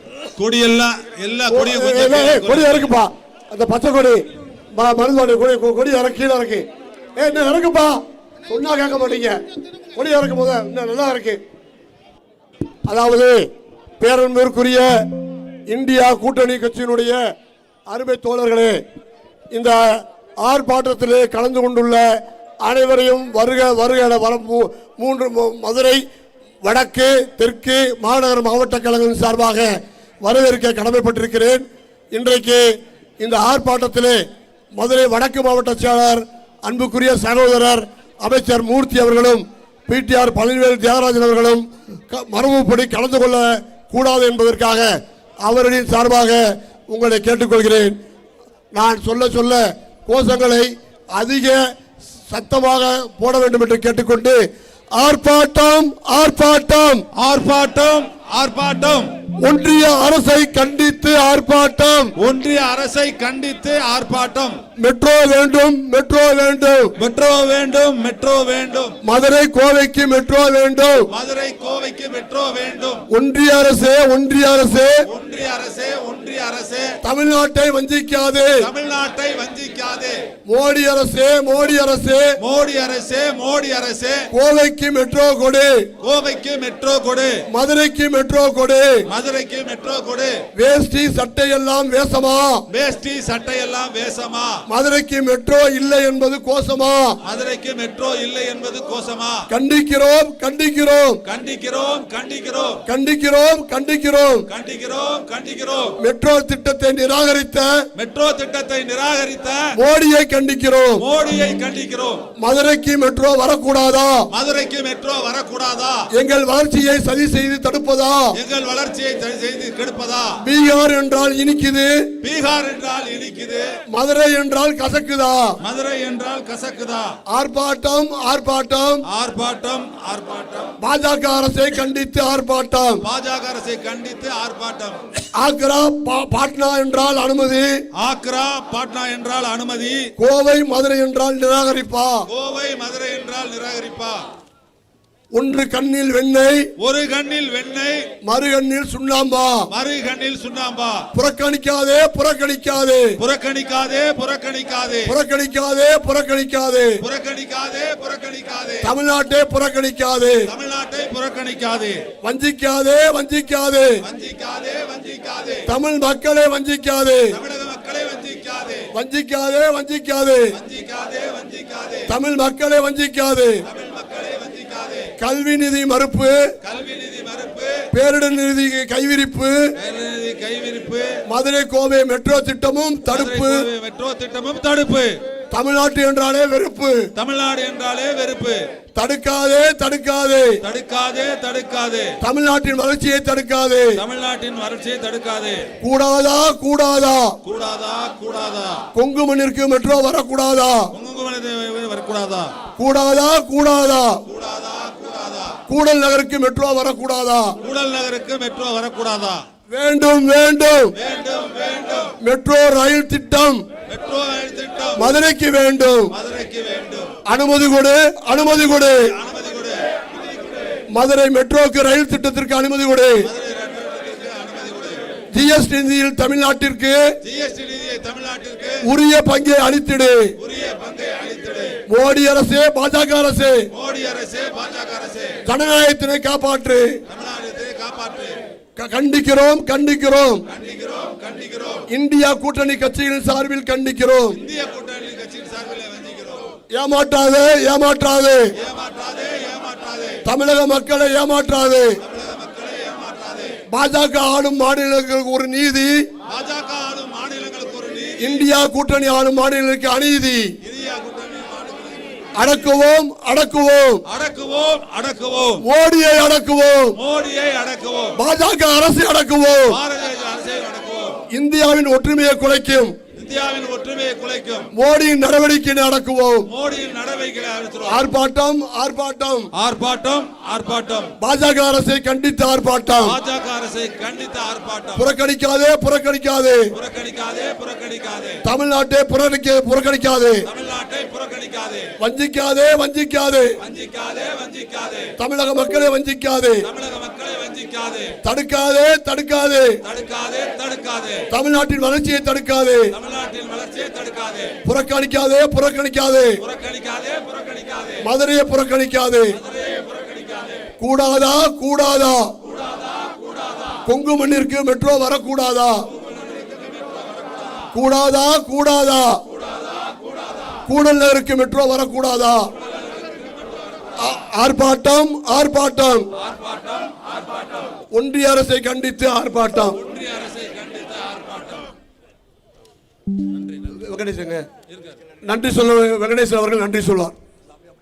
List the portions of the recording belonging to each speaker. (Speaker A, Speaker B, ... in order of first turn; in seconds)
Speaker A: 0.4-2.9, 57.2-59.1, 62.2-64.6, 67.0-69.0, 71.1-73.0, 75.1-76.9, 78.6-80.2, 82.4-84.2, 86.0-87.3, 89.1-90.4, 92.7-94.5, 97.3-99.4, 101.3-102.8, 104.5-105.9, 108.0-109.6, 111.0-112.2, 114.3-116.0, 118.4-120.3, 122.2-123.7, 125.6-127.1, 129.1-130.7, 133.0-135.0, 138.0-140.0, 142.3-144.2, 146.8-148.0, 149.7-151.0, 153.2-155.1, 157.0-158.9, 160.5-162.0, 164.0-165.7, 167.3-168.9, 170.6-172.1, 173.7-175.1, 176.6-177.8, 179.8-181.1, 183.1-185.2, 187.2-188.6, 190.6-192.1, 194.0-195.7, 197.4-198.8, 200.9-202.5, 204.3-205.6, 207.6-209.4, 211.0-212.2, 213.9-215.1, 216.1-217.1, 218.9-219.8, 220.3-220.6, 223.2-225.0, 227.2-228.8, 230.4-231.8, 233.7-235.4, 237.1-238.4, 240.5-241.8, 244.3-246.4, 248.6-250.2, 252.0-253.5, 256.3-258.4, 260.6-262.2, 264.1-265.6, 267.0-268.1, 269.7-271.1, 273.2-274.7, 276.5-278.1, 279.6-281.1, 283.0-285.1, 286.8-288.4, 290.5-291.9, 293.6-295.1, 296.7-298.2, 299.9-301.2, 302.9-304.6, 306.4-308.0, 309.4-310.6, 316.2-317.4, 326.3-326.9, 329.8-331.7
Speaker B: 1.5-4.2, 4.8-6.7, 7.2-9.4, 9.9-11.4, 12.9-13.4, 14.0-14.9, 15.7-17.2, 17.9-18.8, 19.5-19.8, 20.4-22.1, 22.6-26.0, 26.6-29.7, 30.2-32.6, 33.2-34.2, 34.8-44.9, 45.5-48.0, 48.7-51.6, 52.3-54.4, 55.0-57.0, 59.4-62.1, 64.8-66.9, 69.1-71.0, 73.1-75.0, 77.0-78.5, 80.5-82.3, 84.3-85.7, 87.6-89.0, 90.6-92.6, 94.7-97.2, 99.5-101.2, 102.9-104.5, 106.0-107.7, 109.9-111.0, 112.4-114.2, 116.2-118.3, 120.5-121.9, 123.9-125.5, 127.3-129.0, 130.8-133.0, 135.4-137.7, 140.2-142.2, 145.4-146.7, 148.3-149.7, 151.2-153.1, 155.1-156.9, 158.8-160.4, 162.3-163.9, 165.7-167.2, 169.0-170.4, 172.1-173.6, 175.2-176.4, 177.9-179.6, 181.3-183.7, 185.5-187.0, 189.0-190.5, 192.2-193.9, 195.9-197.3, 199.0-200.8, 202.8-204.2, 205.7-207.5, 209.7-210.9, 212.2-213.6, 215.0-216.1, 217.3-219.0, 220.9-223.2, 225.4-227.0, 228.8-230.3, 231.9-233.6, 235.5-236.9, 238.8-240.4, 241.9-244.4, 246.8-248.4, 250.3-251.9, 253.7-255.9, 258.2-260.4, 262.4-264.0, 265.6-266.9, 268.2-269.8, 271.3-272.9, 274.8-276.4, 277.9-279.5, 281.2-283.1, 285.0-286.7, 288.4-290.4, 292.0-293.5, 295.2-296.6, 298.2-299.7, 301.3-302.9, 304.7-306.4, 308.1-309.3, 310.8-312.3, 313.9-315.8, 317.8-319.2, 320.7-322.5, 324.0-326.1, 327.9-329.8, 333.8-334.4, 335.2-337.1